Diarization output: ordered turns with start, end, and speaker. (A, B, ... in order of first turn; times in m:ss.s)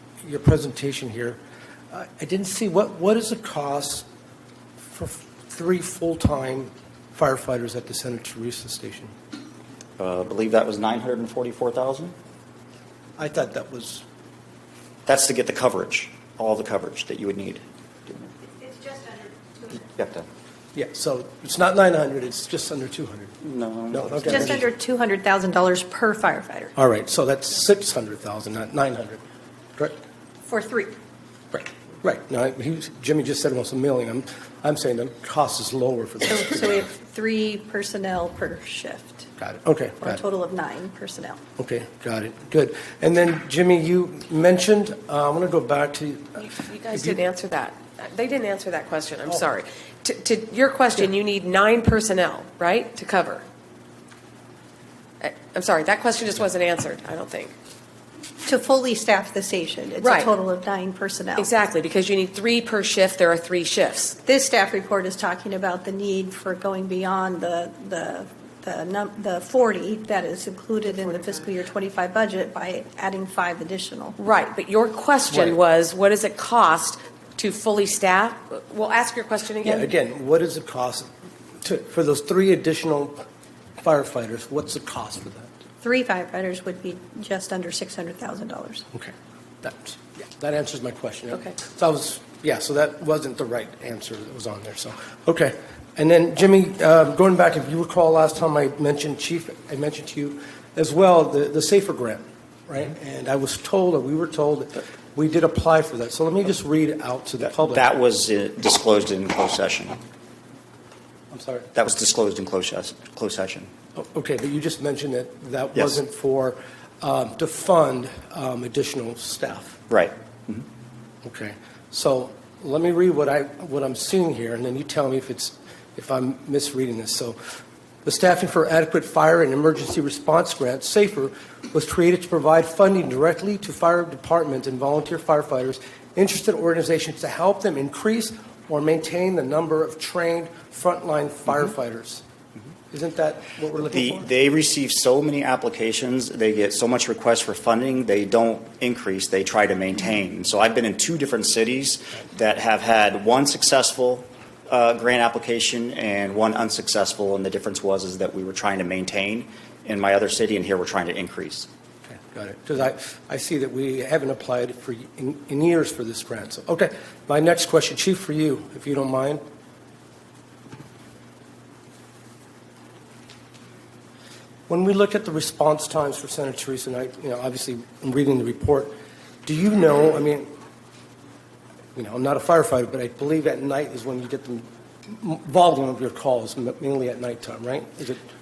0:00.2-0:01.4 A
0:01.9-0:04.0 A
0:04.9-0:09.1 A
0:10.0-0:12.1 B
0:13.2-0:14.0 A
0:15.0-0:18.3 B
0:19.7-0:20.3 B
0:20.7-0:23.3 A
0:23.4-0:24.6 B
0:23.9-0:24.6 A
0:24.3-0:26.7 C
0:26.8-0:29.2 A
0:30.5-0:30.9 C
0:31.5-0:36.8 A
0:36.3-0:39.3 C
0:39.4-0:40.2 A
0:40.0-0:41.4 C
0:41.6-0:47.2 A
0:46.4-0:53.4 D
0:55.2-0:57.5 D
0:58.4-1:01.5 C
1:00.0-1:00.3 D
1:01.4-1:04.2 D
1:04.2-1:14.2 C
1:14.2-1:19.9 D
1:19.6-1:21.1 A
1:21.6-1:23.2 A
1:23.8-1:25.5 A
1:25.8-1:28.8 C
1:28.9-1:47.8 A
1:47.4-1:50.0 B
1:51.3-1:51.7 A
1:51.7-1:53.7 B
1:54.0-1:59.8 A
1:59.9-2:00.6 B
2:01.2-2:07.4 A
2:08.0-2:22.2 A
2:22.9-2:24.3 A
2:23.9-2:41.7 B
2:42.1-2:49.4 A
2:54.7-2:58.9 A
2:59.4-3:00.5 A
3:02.0-3:08.2 A